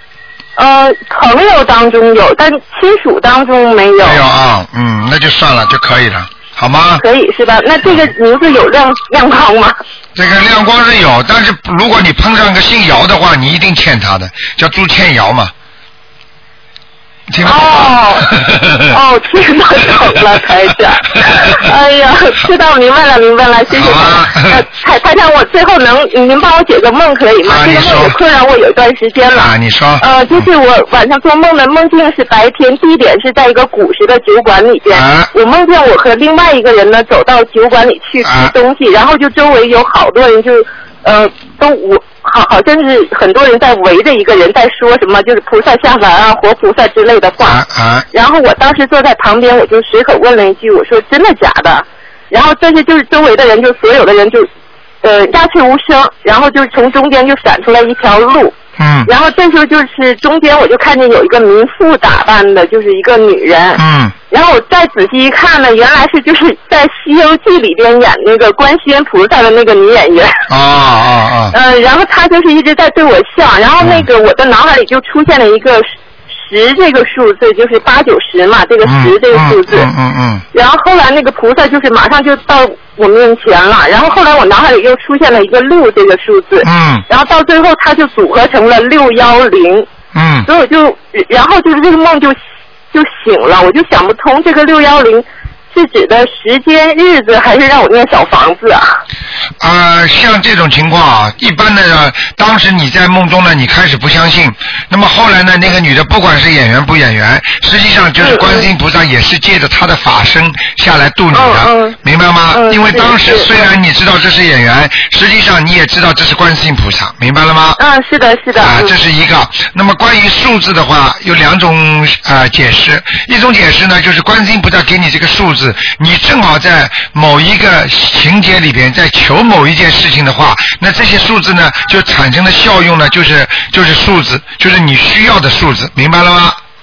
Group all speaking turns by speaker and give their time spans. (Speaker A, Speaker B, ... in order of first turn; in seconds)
Speaker A: 0.6-4.2, 7.0-9.8, 17.4-18.4, 18.9-47.6, 48.1-54.5, 55.0-58.5, 59.1-70.4, 71.5-79.9, 80.5-89.9, 90.5-92.4, 92.9-99.0, 108.2-108.7, 111.3-112.0, 112.5-113.5, 117.8-118.9
Speaker B: 4.0-7.0, 10.2-15.5, 17.3-18.9, 21.1-21.7, 23.7-24.6, 27.4-28.2, 29.4-30.4, 34.9-35.3, 38.2-38.5, 47.4-48.1, 58.8-59.1, 63.8-64.2, 70.5-71.5, 73.8-74.1, 78.8-80.4, 86.6-87.1, 90.1-90.5, 99.6-117.8, 118.6-136.6